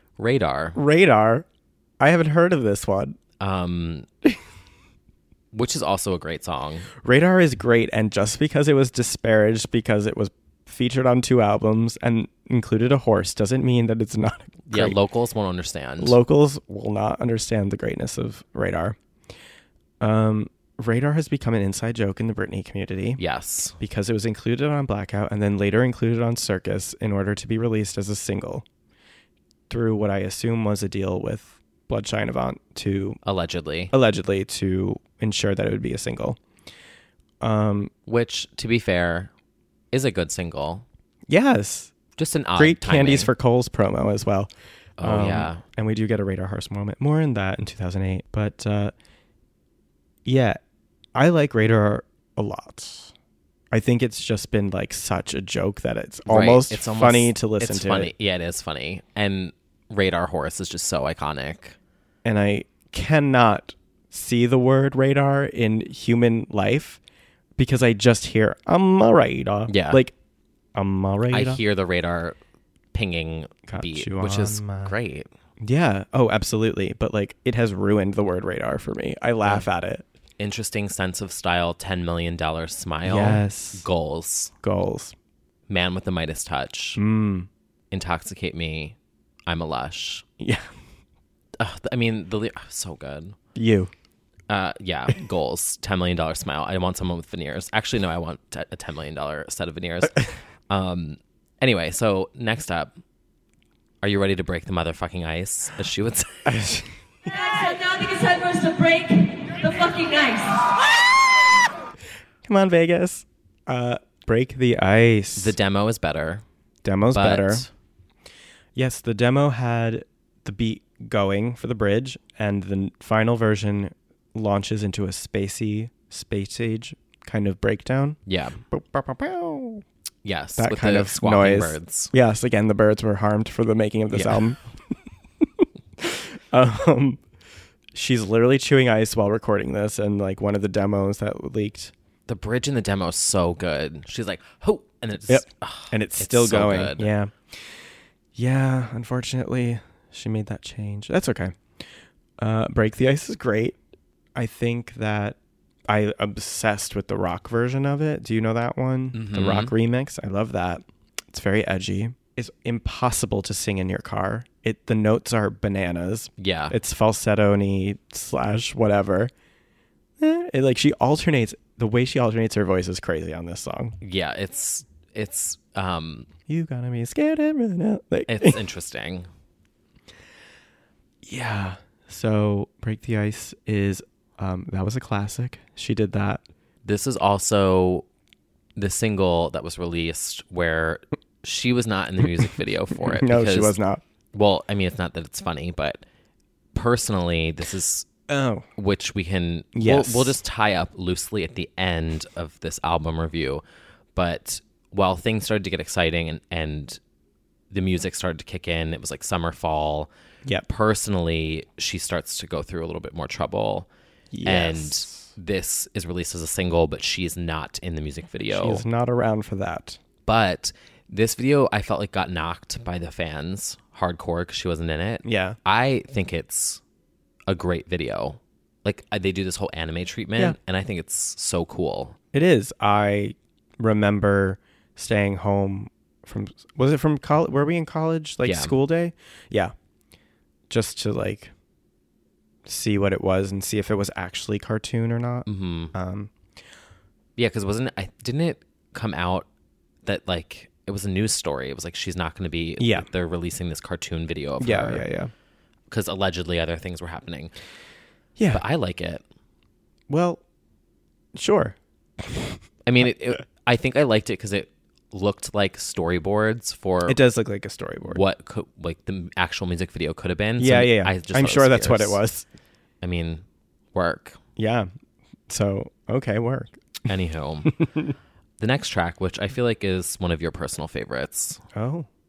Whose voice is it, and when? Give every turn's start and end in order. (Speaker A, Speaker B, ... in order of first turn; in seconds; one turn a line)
Speaker A: 0.2-0.8
Speaker B: 0.7-1.4
Speaker B: 2.0-3.1
Speaker A: 3.4-4.1
Speaker A: 5.5-6.9
Speaker B: 7.0-15.0
Speaker A: 14.7-16.2
Speaker B: 16.0-19.0
Speaker B: 20.0-23.2
Speaker A: 23.2-23.8
Speaker B: 23.8-28.6
Speaker B: 29.7-33.2
Speaker A: 33.2-33.9
Speaker B: 33.9-36.4
Speaker B: 37.4-37.9
Speaker A: 38.0-39.3
Speaker A: 39.9-40.8
Speaker B: 41.3-41.9
Speaker A: 42.2-43.3
Speaker B: 42.5-48.9
Speaker A: 45.0-45.6
Speaker B: 50.2-50.6
Speaker B: 51.1-53.1
Speaker B: 53.7-58.1
Speaker A: 56.3-61.8
Speaker B: 62.2-67.0
Speaker B: 67.6-70.1
Speaker A: 69.7-70.0
Speaker B: 70.7-71.6
Speaker A: 71.3-72.4
Speaker A: 72.9-75.3
Speaker B: 73.7-75.0
Speaker B: 75.6-80.0
Speaker A: 80.4-84.5
Speaker B: 83.0-83.9
Speaker B: 84.6-85.1
Speaker A: 85.7-87.0
Speaker B: 87.0-87.5
Speaker A: 87.9-89.0
Speaker A: 89.5-90.2
Speaker B: 90.4-90.7
Speaker A: 91.6-93.3
Speaker B: 93.5-93.9
Speaker A: 94.5-102.9
Speaker A: 104.0-106.5
Speaker B: 106.4-106.9
Speaker C: 107.2-110.7
Speaker B: 112.4-115.5
Speaker A: 115.3-116.4
Speaker B: 116.8-117.7
Speaker A: 117.1-117.7
Speaker B: 118.7-129.8
Speaker A: 128.2-128.6
Speaker A: 130.2-132.1
Speaker B: 130.6-134.6
Speaker A: 134.1-134.4
Speaker B: 136.0-137.2
Speaker B: 137.9-141.9
Speaker A: 142.3-147.1
Speaker B: 145.3-147.8
Speaker B: 148.3-151.6
Speaker B: 152.4-153.8
Speaker B: 154.3-155.4
Speaker B: 155.9-169.3
Speaker A: 159.1-159.7
Speaker A: 166.4-166.7
Speaker B: 170.2-173.9
Speaker A: 174.0-176.3
Speaker B: 176.5-178.6
Speaker A: 178.3-179.3
Speaker B: 181.2-186.4
Speaker A: 186.8-188.0
Speaker A: 188.8-193.8
Speaker B: 192.9-194.0
Speaker A: 194.3-196.0
Speaker A: 196.7-198.1
Speaker B: 198.3-198.6
Speaker A: 198.8-203.6
Speaker B: 199.7-200.3
Speaker A: 204.1-207.0
Speaker A: 207.7-210.1
Speaker A: 210.7-213.9
Speaker B: 214.3-215.3
Speaker A: 214.4-218.8
Speaker B: 218.5-220.0
Speaker A: 220.2-226.8
Speaker B: 225.2-225.6
Speaker A: 227.5-232.2
Speaker B: 232.3-239.7
Speaker A: 238.4-238.8
Speaker B: 240.7-241.5
Speaker B: 242.7-246.3
Speaker A: 245.4-245.9
Speaker A: 247.4-249.5
Speaker A: 250.0-255.1
Speaker B: 252.8-253.1
Speaker B: 254.6-255.3
Speaker A: 255.9-257.5
Speaker B: 258.4-258.6
Speaker A: 258.5-259.2
Speaker B: 260.1-260.4
Speaker B: 261.3-262.6
Speaker A: 262.8-267.2
Speaker B: 267.1-268.2
Speaker A: 268.1-272.2
Speaker B: 270.6-272.4
Speaker A: 273.0-274.4
Speaker B: 274.6-274.9
Speaker B: 275.5-276.8
Speaker A: 277.1-277.7
Speaker B: 277.6-278.1
Speaker A: 278.6-281.6
Speaker B: 281.7-282.1